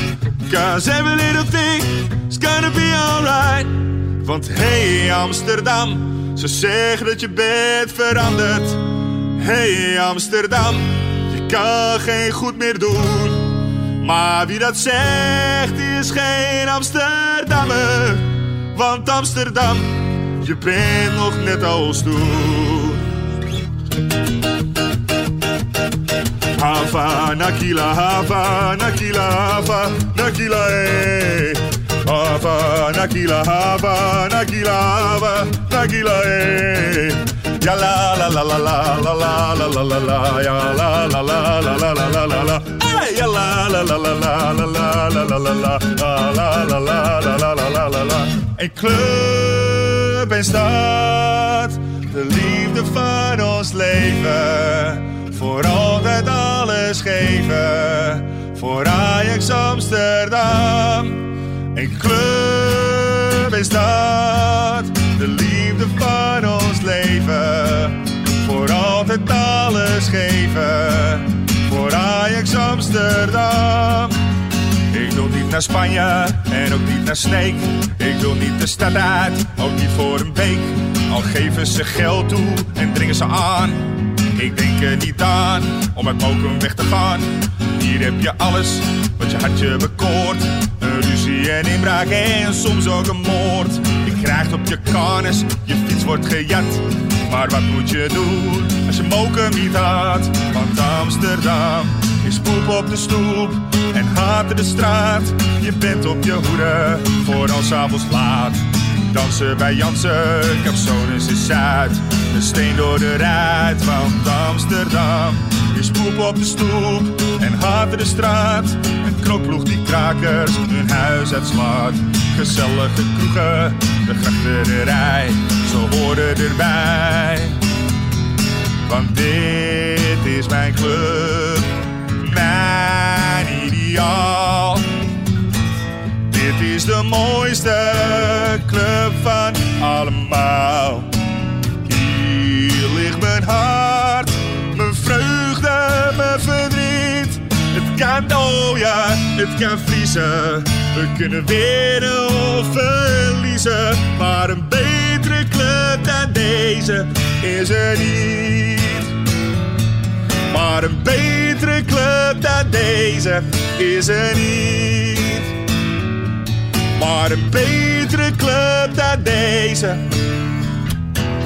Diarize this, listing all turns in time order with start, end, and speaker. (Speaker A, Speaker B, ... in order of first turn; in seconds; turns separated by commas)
Speaker A: 0.5-23.0, Speaker A: 26.6-74.1, Speaker A: 74.9-127.6, Speaker A: 128.8-135.0, Speaker A: 136.3-141.1, Speaker A: 141.8-159.1, Speaker A: 160.5-165.5, Speaker A: 166.9-170.4